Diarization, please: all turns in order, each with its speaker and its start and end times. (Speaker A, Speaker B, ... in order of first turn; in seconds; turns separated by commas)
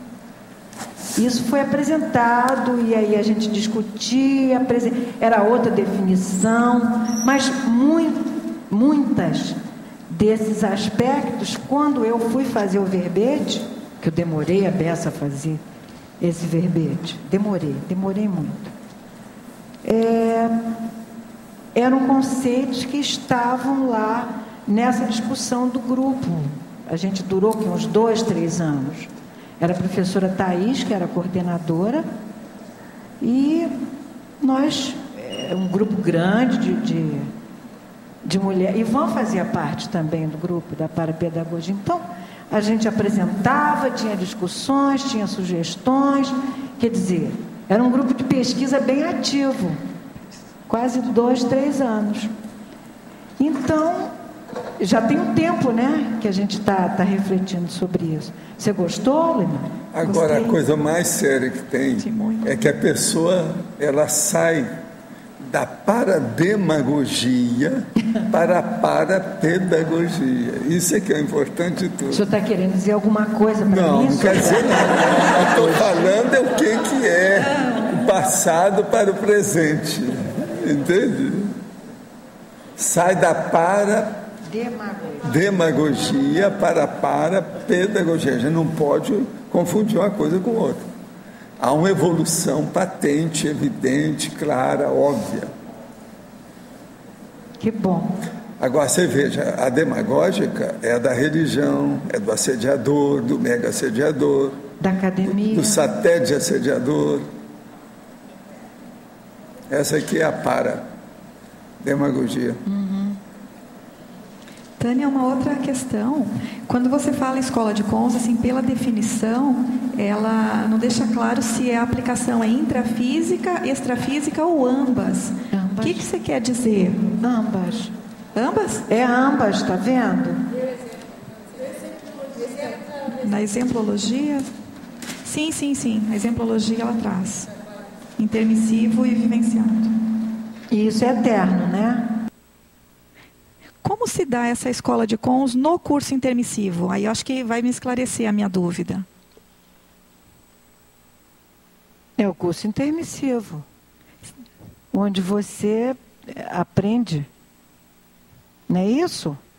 Speaker A: 1.1-9.6, Speaker A: 10.1-15.6, Speaker A: 16.2-18.7, Speaker A: 19.8-20.6, Speaker A: 21.7-32.0, Speaker A: 33.2-33.7, Speaker A: 34.4-37.3, Speaker A: 38.2-49.8, Speaker A: 50.7-52.3, Speaker A: 53.4-54.1, Speaker A: 54.8-60.6, Speaker B: 59.9-64.7, Speaker C: 62.0-62.5, Speaker B: 65.4-72.2, Speaker A: 72.1-76.2, Speaker B: 73.7-81.5, Speaker B: 82.8-84.2, Speaker A: 84.5-85.3, Speaker B: 85.2-90.9, Speaker B: 91.6-95.5, Speaker A: 97.6-98.2, Speaker B: 98.6-104.6, Speaker A: 104.8-105.8, Speaker B: 105.3-107.3, Speaker B: 109.7-110.9, Speaker B: 111.8-112.6, Speaker A: 112.7-113.2, Speaker C: 114.8-127.1, Speaker A: 125.5-126.1, Speaker A: 127.2-127.9, Speaker C: 128.3-128.8, Speaker A: 128.9-130.4, Speaker C: 133.1-134.5, Speaker C: 135.2-137.5, Speaker C: 138.2-139.9, Speaker A: 140.7-142.1, Speaker C: 143.8-149.0, Speaker A: 152.2-153.6, Speaker A: 154.9-157.3, Speaker A: 158.7-159.4